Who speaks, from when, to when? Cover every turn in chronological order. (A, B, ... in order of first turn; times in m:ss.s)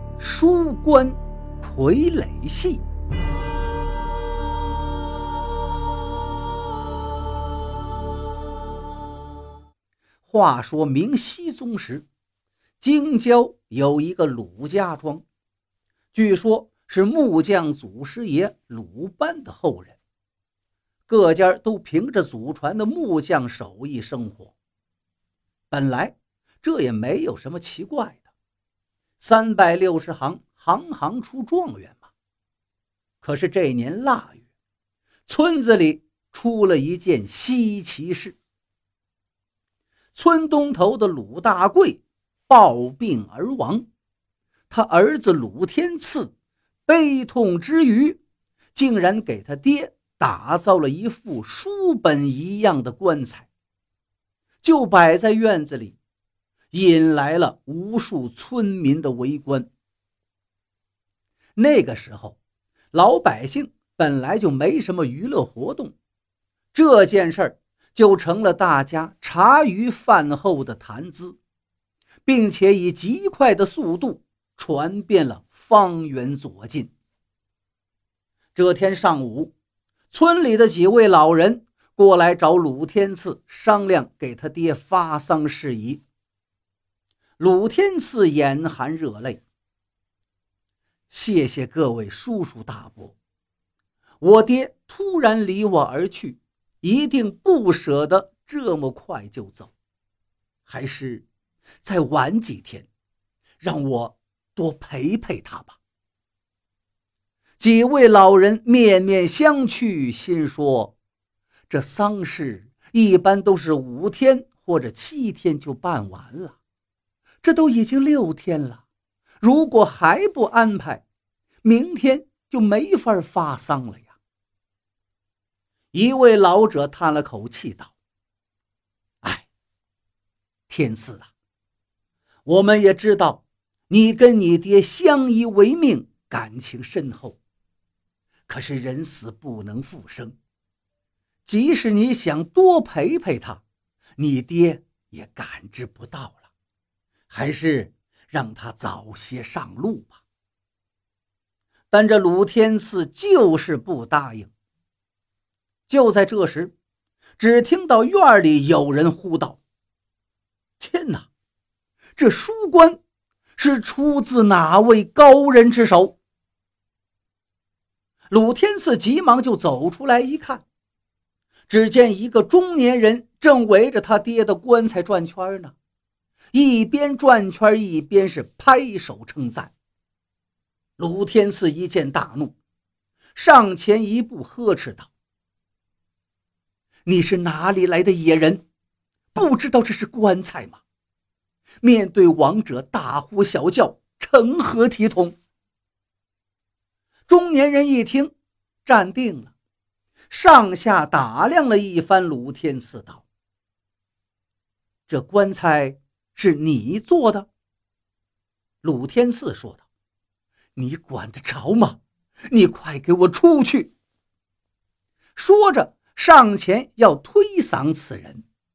0:00.2-0:02.8 A
0:10.2-0:12.0 A
0:12.8-0:15.2 A
0:16.1-0:20.0 A
0:21.1-0:24.5 A
0:25.7-0:28.2 A
0:29.2-0:32.0 A
0:33.2-0:34.4 A
0:35.2-0:38.4 A
0:40.1-0:43.9 A
0:44.7-0:46.3 A
0:46.8-0:48.2 A
0:48.7-0:53.5 A
0:54.6-0:56.0 A
0:56.7-0:59.7 A
1:01.6-1:02.4 A
1:02.9-1:05.9 A
1:06.7-1:11.4 A
1:12.2-1:16.9 A
1:18.5-1:19.5 A
1:20.1-1:26.0 A
1:27.4-1:29.4 A
1:31.1-1:33.1 A
1:34.2-1:39.7 A
1:40.7-1:41.2 A
1:41.8-1:42.9 A
1:43.6-1:45.8 A
1:47.6-1:50.9 A
1:51.7-1:56.6 A
1:57.4-1:58.8 A
1:59.4-2:01.0 A
2:01.6-2:04.1 A
2:05.9-2:07.9 A
2:09.2-2:09.5 A
2:10.7-2:11.3 A
2:12.4-2:17.4 A
2:18.5-2:20.4 A
2:21.4-2:23.6 A
2:24.2-2:26.4 A
2:27.3-2:30.2 A
2:31.9-2:34.5 A
2:35.9-2:36.7 A
2:37.4-2:39.6 A
2:40.8-2:41.3 A
2:42.2-2:43.0 A
2:43.6-2:46.2 A
2:48.3-2:50.6 A
2:51.7-2:55.7 A
2:56.5-2:59.7 A
3:01.0-3:02.5 A
3:03.3-3:05.1 A
3:07.0-3:08.6 A
3:09.3-3:10.8 A
3:11.8-3:15.4 A
3:17.3-3:18.3 A
3:18.8-3:19.5 A
3:20.3-3:23.2 A
3:25.1-3:27.5 A
3:28.8-3:29.8 A
3:30.8-3:33.9 A
3:35.4-3:38.4 A